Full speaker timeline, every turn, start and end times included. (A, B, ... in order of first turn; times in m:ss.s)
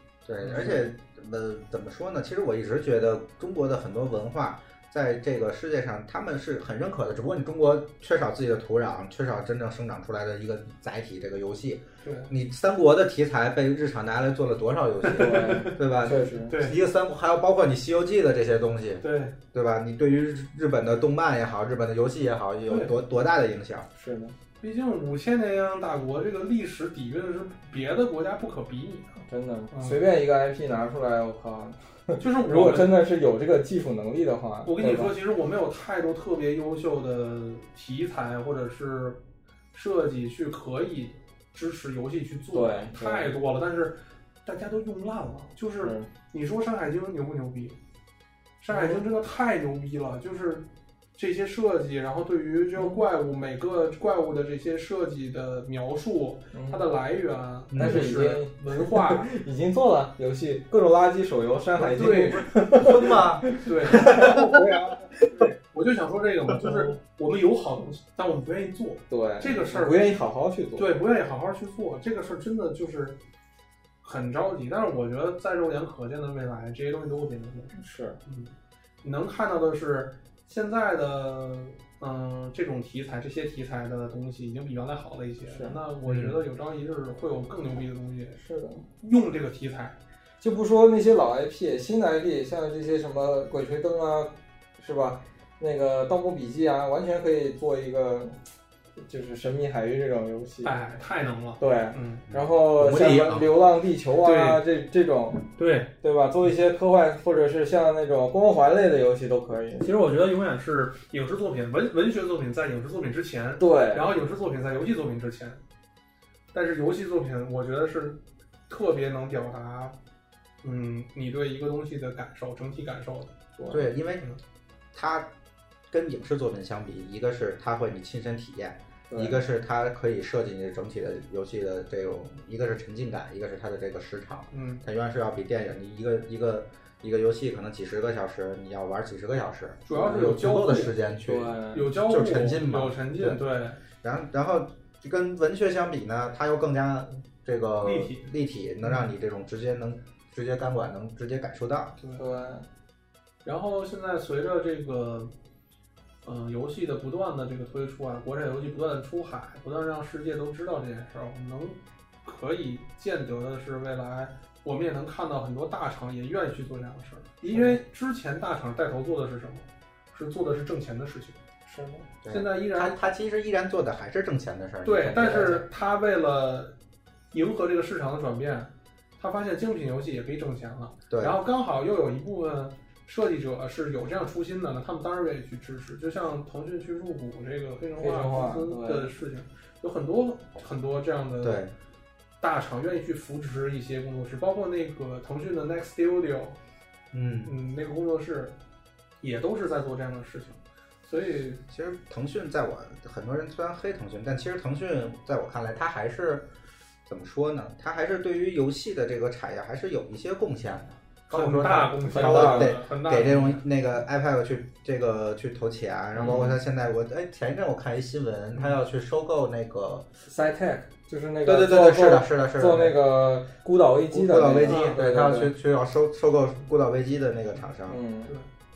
0:00.2-0:23.9 A
0:00.4-0:00.9 B
0:12.0-0:12.3 B
0:15.0-0:15.8 B
0:15.1-0:16.5 C
0:16.5-0:16.8 B
0:19.0-0:19.3 B
0:24.0-0:24.3 C
0:24.6-0:30.0 B
0:29.3-0:35.1 C
0:32.2-0:32.9 B
0:34.6-0:39.2 B
0:39.7-0:47.8 B
0:42.5-0:43.3 C
0:45.8-0:46.1 C
0:48.6-0:50.6 B
0:48.7-0:49.0 C
0:51.2-0:59.3 B
0:56.5-0:56.8 C
0:57.7-0:58.1 A
0:57.8-1:05.5 C
1:01.8-1:02.5 B
1:02.8-1:04.6 A
1:03.6-1:04.6 B
1:05.6-1:10.1 B
1:09.1-1:11.0 C
1:10.8-1:13.2 B
1:14.0-1:18.5 B
1:17.8-1:18.2 C
1:19.0-1:30.0 B
1:25.5-1:25.8 C
1:26.0-1:26.4 A
1:28.4-1:28.8 C
1:30.4-1:38.4 C
1:39.0-1:40.8 C
1:40.6-1:42.3 B
1:41.6-1:49.9 C
1:42.3-1:43.5 A
1:44.2-1:44.6 B
1:45.6-1:45.9 B
1:49.8-1:55.6 B
1:53.6-1:54.1 C
1:56.5-2:00.0 B
2:00.6-2:03.4 B
2:03.6-2:03.9 C
2:03.7-2:04.3 A
2:04.9-2:05.3 A
2:05.9-2:23.4 A
2:09.1-2:09.4 C
2:14.5-2:14.8 B
2:19.8-2:20.9 B
2:19.9-2:21.9 C
2:21.7-2:23.8 B
2:24.0-2:32.0 A
2:27.8-2:28.3 B
2:28.8-2:29.1 B
2:32.0-2:32.2 B
2:32.2-2:32.6 C
2:33.4-2:35.3 B
2:36.2-2:51.4 B
2:47.5-2:47.8 C
2:51.7-2:52.0 C
2:52.1-2:53.0 B
2:52.2-2:55.6 A
2:54.8-2:56.7 B
2:55.1-2:55.6 C
2:57.3-3:11.6 B
3:01.1-3:01.4 A
3:08.0-3:09.1 C
3:11.4-3:11.7 A
3:12.4-3:16.6 B
3:17.1-3:17.5 A
3:17.4-3:18.6 B
3:19.2-3:21.6 B
3:21.7-3:26.5 A
3:27.0-3:40.1 A
3:31.3-3:33.6 B
3:32.0-3:32.8 C
3:36.2-3:36.6 C
3:40.3-3:45.5 C
3:41.4-3:43.0 A
3:44.1-3:48.0 A
3:44.6-3:45.0 B
3:47.9-3:48.3 C